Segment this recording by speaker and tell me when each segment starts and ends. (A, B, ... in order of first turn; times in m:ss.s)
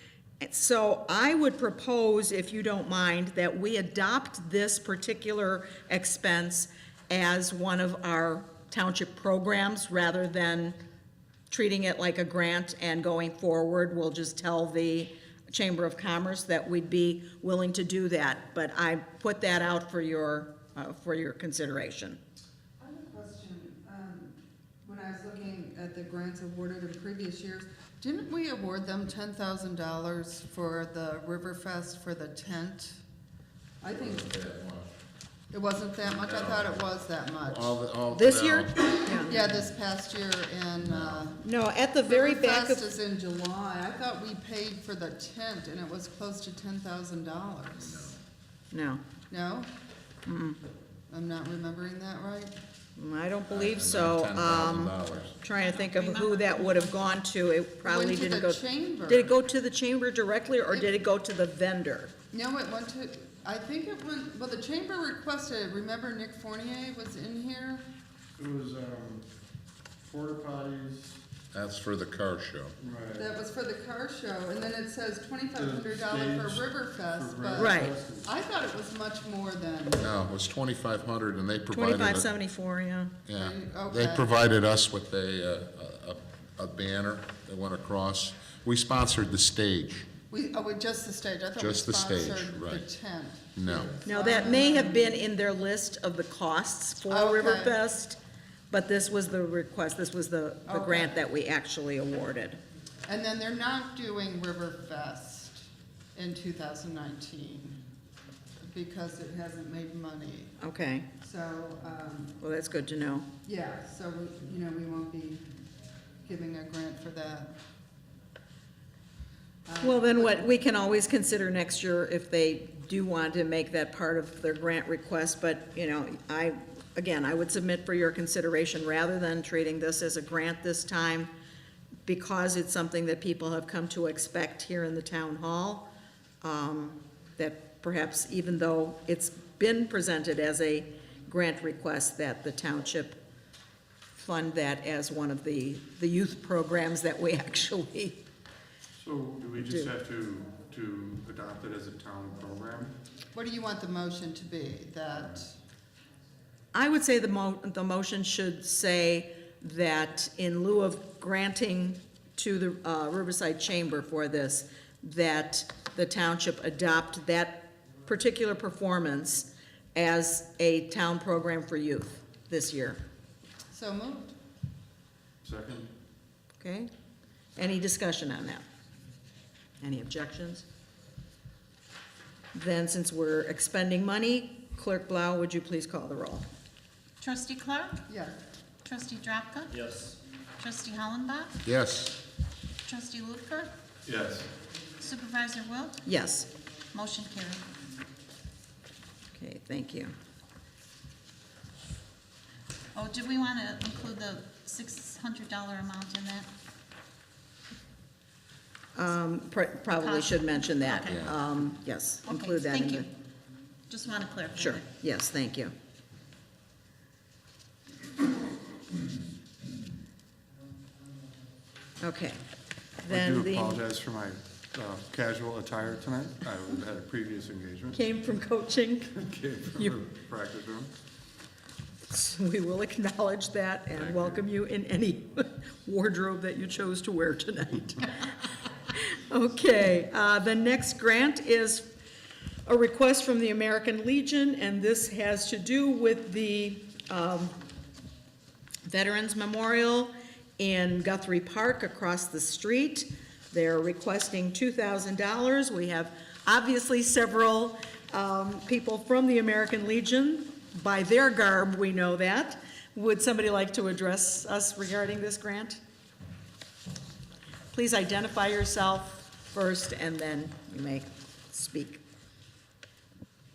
0:00.4-0:10.8 A
0:11.5-0:22.2 A
0:22.8-0:33.0 B
0:33.8-0:34.3 B
0:33.9-0:34.9 C
0:35.5-0:37.8 B
0:36.0-0:36.8 C
0:37.4-0:39.7 C
0:38.1-0:39.4 A
0:39.0-0:41.4 B
0:40.8-0:41.3 C
0:41.4-0:42.9 A
0:42.0-0:48.1 B
0:47.8-0:48.2 C
0:48.7-0:49.0 A
0:49.3-0:49.7 B
0:50.2-0:50.6 A
0:51.1-0:52.5 B
0:53.0-1:02.1 A
0:53.5-0:55.3 C
0:55.5-0:57.2 D
0:57.8-0:59.3 B
1:02.3-1:07.8 B
1:08.4-1:09.2 E
1:10.0-1:11.2 E
1:11.5-1:12.7 C
1:12.8-1:13.3 E
1:13.2-1:20.0 B
1:15.5-1:18.3 E
1:17.6-1:17.9 A
1:20.0-1:22.3 C
1:21.7-1:23.2 A
1:23.2-1:30.1 C
1:23.3-1:24.3 B
1:30.3-1:35.2 B
1:31.6-1:32.8 C
1:33.6-1:33.9 C
1:34.0-1:38.2 A
1:37.1-1:37.8 B
1:38.7-1:42.6 A
1:40.7-1:41.2 B
1:43.0-1:47.8 B
1:48.6-1:50.5 B
1:50.6-1:51.1 A
1:51.2-1:52.4 B
1:52.4-1:53.3 A
1:53.4-1:55.4 B
1:56.2-1:57.5 B
1:59.6-2:00.4 B
1:59.8-2:11.3 A
2:12.0-2:15.9 A
2:16.4-2:23.2 A
2:24.1-2:28.2 A
2:29.0-2:32.9 E
2:29.6-2:29.9 A
2:33.3-2:35.5 B
2:36.7-2:53.0 A
2:53.7-2:54.3 B
2:55.4-2:55.9 E
2:56.6-2:56.9 A
2:57.6-2:58.6 A
2:59.8-3:00.6 A
3:02.5-3:06.5 A
3:07.2-3:08.0 D
3:08.1-3:08.4 B
3:08.8-3:09.9 D
3:10.6-3:11.5 D
3:11.6-3:12.2 C
3:12.8-3:13.7 D
3:14.0-3:14.5 E
3:15.0-3:16.1 D
3:16.0-3:16.5 A
3:16.9-3:17.6 D
3:19.3-3:20.1 A
3:22.9-3:26.5 D
3:28.9-3:33.1 A
3:29.9-3:31.3 D
3:31.1-3:31.4 C
3:32.2-3:33.1 D
3:33.9-3:34.8 D
3:34.6-3:35.7 A
3:42.0-3:42.4 A
3:43.0-3:43.8 A
3:43.1-3:48.0 E
3:47.9-3:49.2 A
3:49.1-3:50.9 E
3:49.7-3:50.0 A
3:52.1-3:58.3 A
3:53.9-3:54.4 E
3:58.9-4:01.9 A
4:02.6-4:07.5 A
4:08.8-4:25.8 A
4:27.7-4:32.0 A